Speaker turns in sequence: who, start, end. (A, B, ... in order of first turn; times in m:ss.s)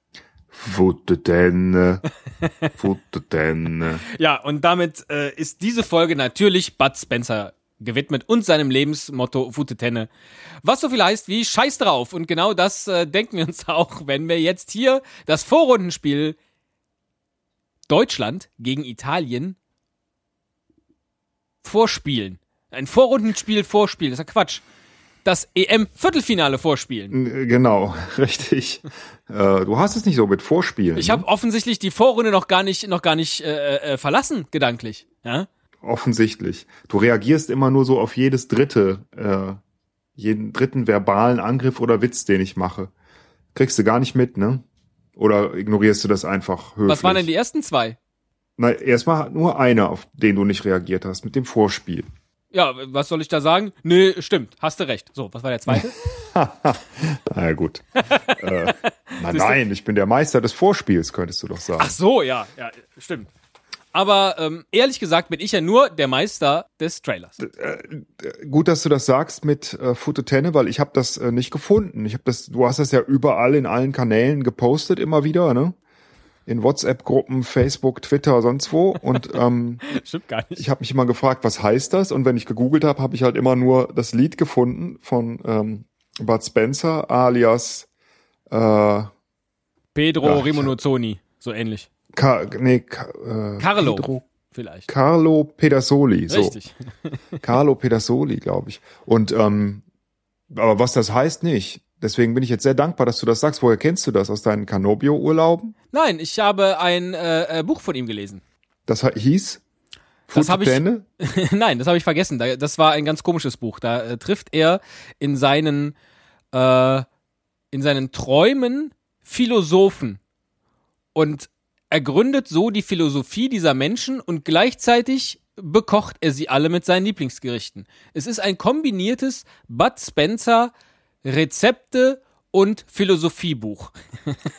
0:00.5-0:02.0 A
0:02.8-0:04.0 A
0:04.2-0:10.1 B
0:10.6-0:16.4 B
0:17.9-0:19.6 B
0:21.6-0:24.6 B
0:25.2-0:27.2 B
0:27.1-0:31.2 A
0:31.0-0:35.5 B
0:35.8-0:39.6 A
0:40.2-0:42.9 A
0:43.5-0:44.6 A
0:45.2-0:47.3 A
0:46.9-0:48.0 B
0:48.6-0:52.1 A
0:52.5-0:56.0 B
0:55.7-1:01.9 A
0:58.1-0:59.6 B
1:01.8-1:03.3 B
1:03.9-1:07.4 B
1:07.4-1:15.8 A
1:16.5-1:19.8 A
1:19.8-1:20.6 B
1:20.6-1:27.9 A
1:28.5-1:29.1 A
1:29.9-1:31.9 B
1:30.2-1:30.8 A
1:32.1-1:34.2 A
1:33.6-1:34.9 B
1:34.9-1:36.6 A
1:36.3-1:37.2 B
1:37.4-1:39.8 A
1:40.5-1:45.7 A
1:45.9-1:48.4 B
1:48.9-1:49.6 A
1:50.3-1:56.0 B
1:50.3-1:51.1 A
1:56.5-1:57.1 B
1:57.7-2:00.2 B
2:01.2-2:10.7 B
2:11.2-2:14.4 B